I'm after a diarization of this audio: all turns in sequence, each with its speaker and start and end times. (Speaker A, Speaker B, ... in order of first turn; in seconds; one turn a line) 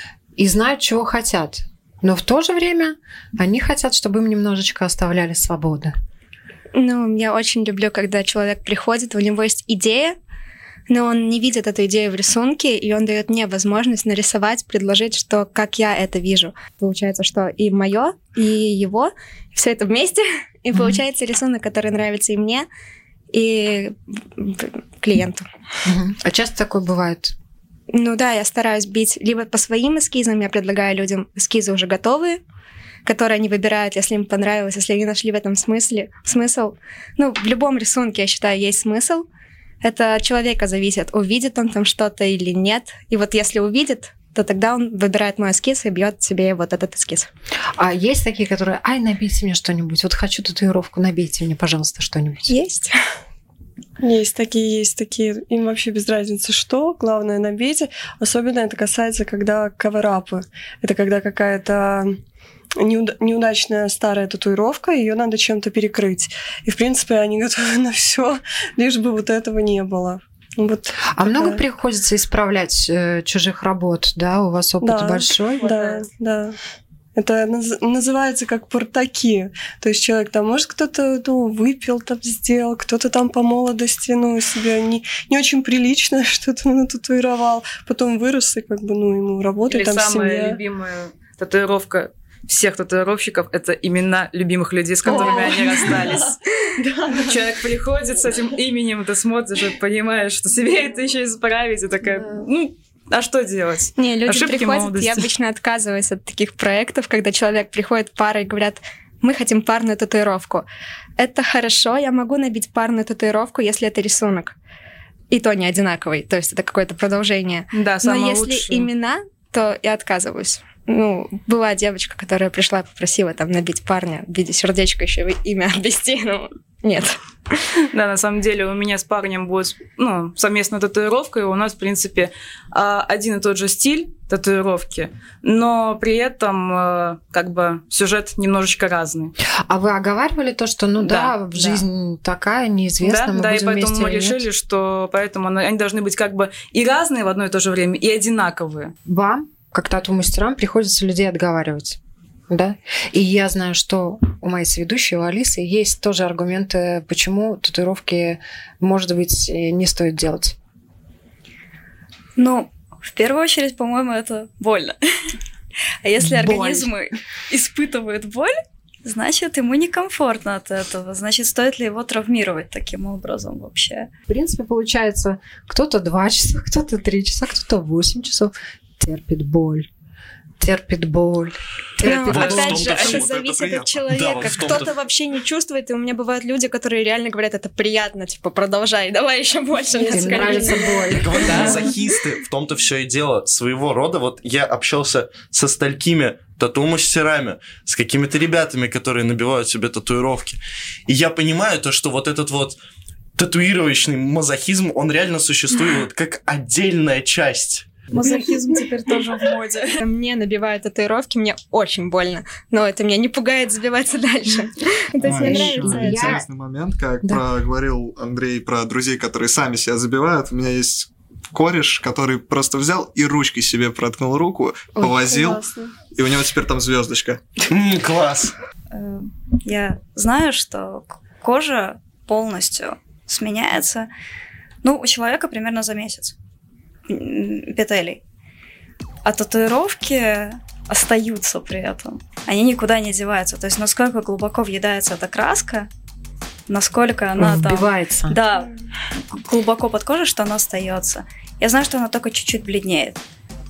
Speaker A: 0.4-5.9
Speaker B: 6.7-10.2
Speaker B: 10.9-22.7
Speaker A: 20.7-21.0
Speaker B: 23.3-25.4
Speaker A: 25.8-27.3
Speaker B: 27.9-32.4
Speaker B: 33.0-39.2
Speaker B: 39.8-47.3
Speaker A: 47.8-52.5
Speaker B: 52.5-52.9
Speaker C: 54.0-62.2
Speaker C: 62.8-71.6
Speaker A: 71.2-75.7
Speaker C: 74.8-76.5
Speaker C: 77.2-90.6
Speaker D: 89.7-96.4
Speaker C: 95.0-96.2
Speaker C: 96.9-97.4
Speaker D: 97.1-105.3
Speaker B: 104.0-110.7
Speaker B: 111.2-114.5
Speaker B: 115.3-127.5
Speaker D: 117.7-118.9
Speaker D: 127.9-139.3
Speaker A: 139.7-144.4
Speaker D: 141.0-141.8
Speaker D: 143.0-148.9
Speaker A: 149.1-152.0
Speaker A: 152.5-160.5
Speaker E: 162.3-165.0
Speaker E: 166.0-174.1
Speaker A: 174.3-179.9
Speaker A: 180.6-182.9
Speaker B: 182.0-191.9
Speaker F: 182.2-183.3
Speaker G: 182.3-184.8
Speaker F: 184.1-184.9
Speaker A: 190.0-191.8
Speaker F: 191.1-202.8
Speaker F: 203.3-207.9
Speaker B: 208.1-209.5
Speaker E: 209.1-209.5
Speaker B: 210.0-216.2
Speaker G: 215.2-227.4
Speaker A: 215.4-216.4
Speaker C: 225.0-225.9
Speaker F: 227.7-228.5
Speaker E: 228.9-234.1
Speaker E: 234.8-236.3
Speaker E: 237.1-238.2
Speaker E: 239.2-245.9
Speaker E: 246.7-248.7
Speaker A: 247.4-248.4
Speaker E: 249.3-253.2